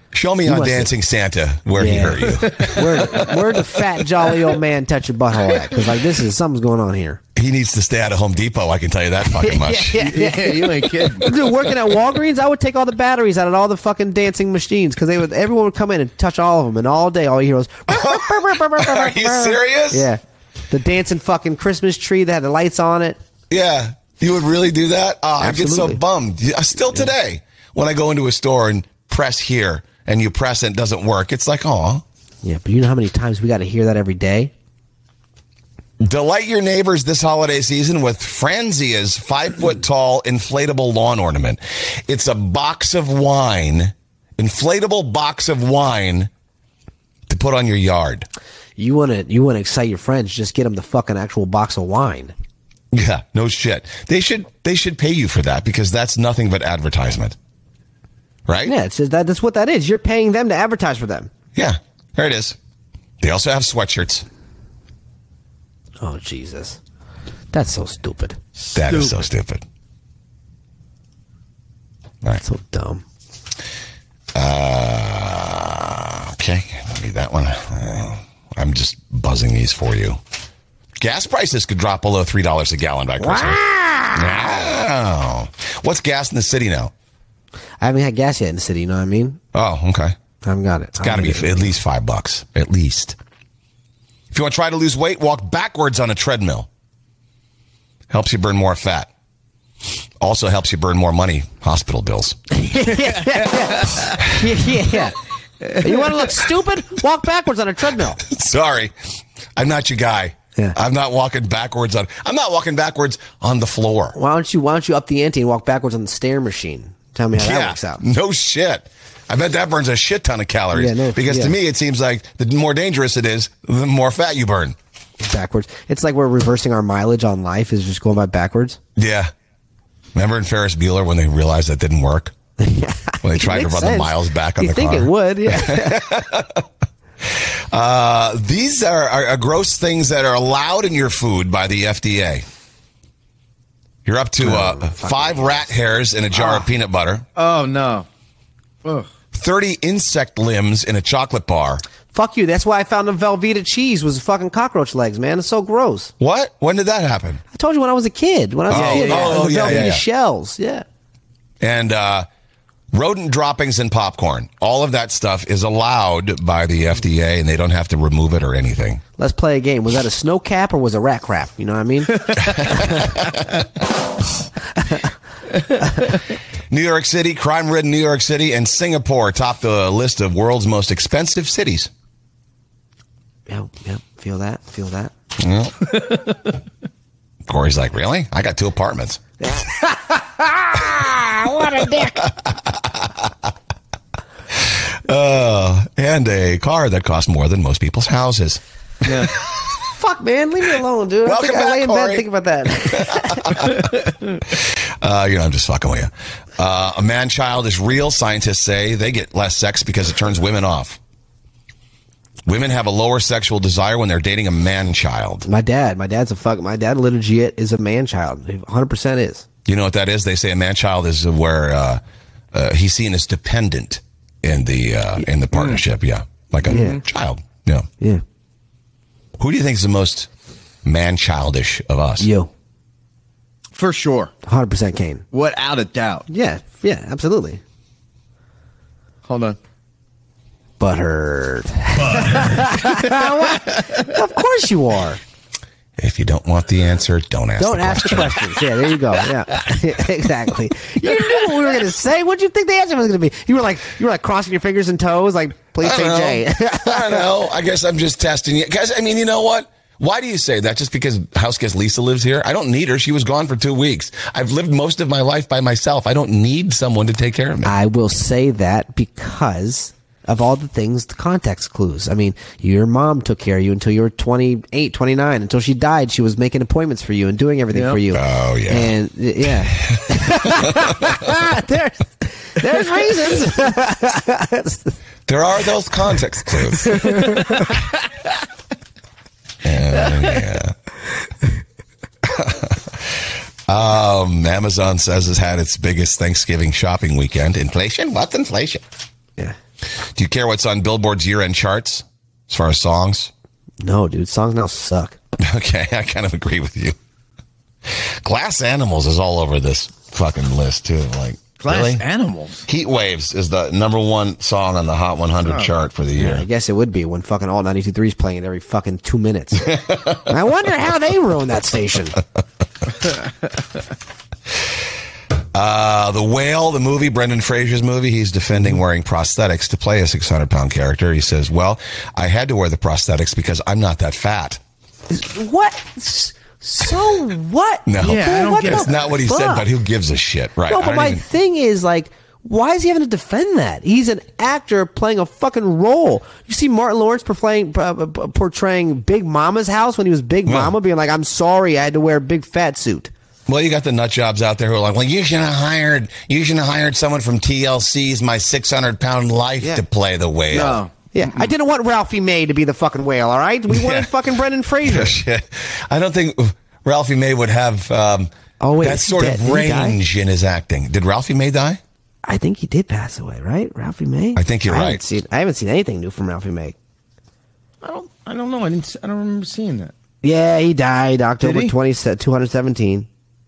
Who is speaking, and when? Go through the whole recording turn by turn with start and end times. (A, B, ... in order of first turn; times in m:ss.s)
0:00.1-0:03.2 A
0:00.4-0:00.9 B
0:01.8-0:07.2 B
0:02.4-0:03.2 C
0:07.3-0:10.0 A
0:09.4-0:23.2 B
0:10.0-0:11.3 C
0:17.9-0:20.0 A
0:23.5-0:32.0 A
0:25.4-0:26.0 B
0:32.4-0:34.5 B
0:36.0-0:46.3 A
0:47.3-0:48.3 A
0:48.8-0:52.3 B
0:52.9-0:57.4 A
0:58.4-0:58.7 A
0:58.6-1:01.3 B
1:01.6-1:02.6 A
1:03.2-1:04.2 A
1:06.0-1:06.8 B
1:07.5-1:08.4 B
1:08.7-1:09.1 C
1:08.7-1:09.6 A
1:12.4-1:13.0 B
1:14.3-1:20.2 A
1:21.0-1:23.6 A
1:23.2-1:24.5 B
1:24.1-1:26.9 A
1:27.8-1:29.4 B
1:29.5-1:30.1 A
1:30.4-1:31.7 B
1:31.0-1:33.1 A
1:34.3-1:36.7 A
1:38.1-1:39.1 A
1:40.2-1:42.4 A
1:42.5-1:48.2 B
1:43.0-1:44.1 C
1:48.2-1:48.9 A
1:49.6-1:54.2 A
1:54.1-1:58.0 B
1:57.3-2:04.8 A
2:00.7-2:01.6 B
2:05.2-2:08.8 B
2:09.0-2:09.3 A
2:10.1-2:12.3 A
2:12.6-2:16.1 B
2:13.2-2:16.6 A
2:17.2-2:22.4 A
2:24.0-2:27.2 A
2:24.4-2:25.6 B
2:27.4-2:28.0 C
2:29.3-2:31.8 A
2:32.1-2:36.1 B
2:36.2-2:37.4 A
2:37.5-2:40.8 B
2:38.7-2:39.9 C
2:38.7-2:40.0 A
2:41.6-2:42.3 A
2:42.9-2:49.0 A
2:49.2-2:53.2 B
2:52.6-2:53.1 A
2:56.7-3:01.9 A
3:03.5-3:05.1 B
3:05.4-3:06.0 A
3:07.4-3:09.2 A
3:09.4-3:12.3 B
3:12.0-3:13.3 A
3:14.6-3:19.5 A
3:19.9-3:23.9 B
3:21.2-3:22.2 A
3:22.8-3:23.9 A
3:24.5-3:31.0 A
3:32.4-3:35.5 A
3:35.4-3:39.4 B
3:39.6-3:42.0 A
3:42.5-3:47.9 A
3:45.5-3:45.8 C
3:46.7-3:47.0 B
3:46.7-3:47.0 C
3:49.4-3:50.3 A
3:50.8-3:52.3 A
3:52.2-3:52.5 B
3:53.7-3:54.3 C
3:54.4-3:55.2 B
3:55.3-3:56.3 C
3:56.3-3:57.6 B
3:59.2-3:59.6 C
4:00.8-4:05.2 B
4:02.6-4:03.8 C
4:06.0-4:08.5 A
4:07.6-4:17.3 B
4:15.8-4:27.7 A
4:27.6-4:44.9 B
4:37.7-4:38.0 C
4:38.1-4:38.9 A
4:39.7-4:41.0 A
4:45.3-4:47.4 A
4:46.8-4:47.7 B
4:47.4-4:47.7 C
4:49.6-4:50.7 A
4:52.2-4:58.8 A
5:00.1-5:03.3 A
5:03.8-5:05.2 B
5:05.4-5:07.0 A
5:07.9-5:12.0 A
5:11.6-5:12.7 C
5:12.7-5:16.4 A
5:15.4-5:15.7 C
5:16.2-5:22.2 B
5:19.6-5:20.1 A
5:25.5-5:34.6 A
5:35.1-5:39.6 B
5:37.8-5:41.2 A
5:38.0-5:38.9 C
5:40.7-5:53.1 B
5:50.4-5:50.7 A
5:53.5-6:00.8 A
6:00.5-6:00.9 C
6:01.1-6:05.2 B
6:03.7-6:04.1 A
6:04.8-6:11.8 A
6:08.6-6:10.0 B
6:12.2-6:16.7 B
6:14.4-6:15.0 A
6:17.8-6:19.9 C
6:20.2-6:23.1 B
6:21.4-6:21.7 C